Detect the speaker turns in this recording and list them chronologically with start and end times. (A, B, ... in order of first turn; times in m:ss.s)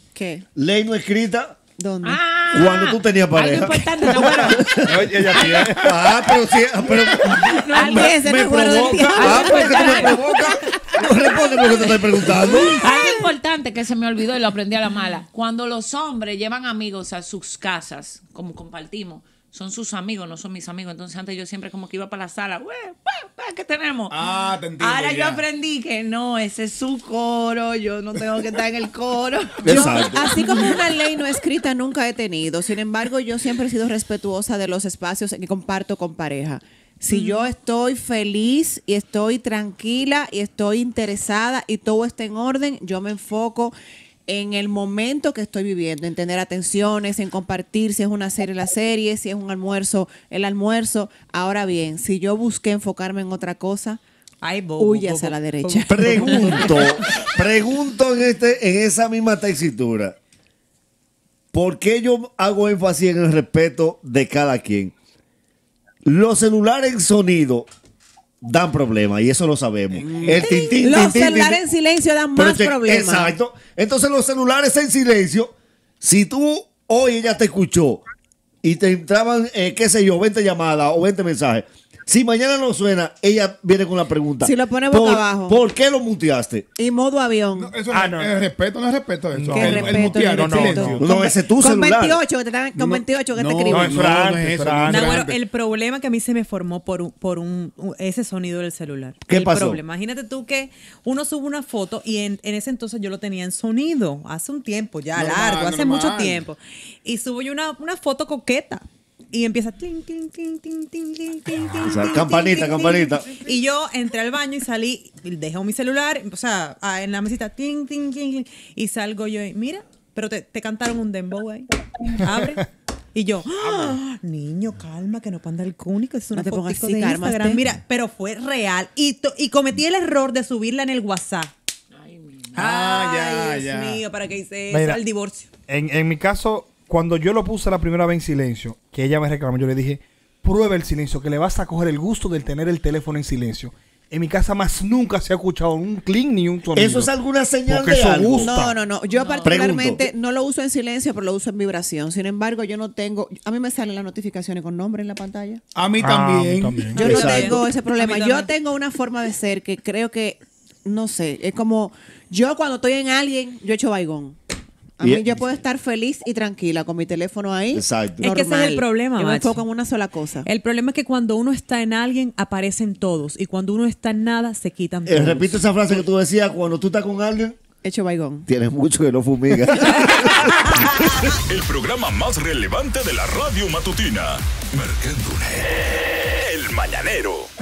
0:00.1-0:00.4 A
0:00.6-0:01.6 B
0:01.8-0:02.2 A
0:02.0-0:05.8 C
0:02.5-0:12.8 B
0:04.7-0:06.0 D
0:07.4-0:10.2 A
0:07.4-0:30.8 C
0:24.1-0:25.4 E
0:29.6-0:30.3 B
0:29.6-0:43.7 A
0:37.1-0:37.4 C
0:44.3-0:54.0 A
0:54.4-0:56.9 F
0:54.8-0:56.8 A
0:55.9-1:00.2 B
1:01.5-1:04.9 B
1:06.0-1:07.7 B
1:08.4-1:11.6 B
1:10.1-1:13.3 A
1:12.3-1:18.0 B
1:18.6-1:26.7 B
1:24.4-1:25.6 A
1:26.8-1:27.8 A
1:27.5-1:31.0 E
1:27.9-1:28.3 D
1:29.3-1:31.1 D
1:29.5-1:34.0 A
1:31.0-1:32.2 B
1:32.7-1:35.4 E
1:33.7-1:35.1 D
1:34.9-2:11.5 F
1:39.3-1:39.8 B
1:45.1-1:46.4 E
1:51.8-1:53.3 B
2:06.3-2:07.6 A
2:11.9-2:12.6 C
2:12.6-2:14.0 E
2:12.6-2:15.5 F
2:14.7-2:15.0 D
2:15.7-2:27.1 D
2:26.7-2:28.5 B
2:27.6-2:28.8 D
2:28.4-2:35.6 A
2:29.1-2:29.6 C
2:29.4-2:30.0 B
2:35.7-2:37.0 E
2:36.0-2:37.6 D
2:36.9-2:44.4 A
2:37.0-2:37.6 B
2:37.0-2:38.5 F
2:45.0-2:50.5 A
2:45.0-2:45.5 B
2:47.7-2:48.3 B
2:48.2-2:49.6 F
2:50.4-2:55.6 F
2:55.1-2:57.6 B
2:57.8-2:58.4 A
2:58.5-3:00.6 B
3:01.5-3:05.6 G
3:06.4-3:07.5 G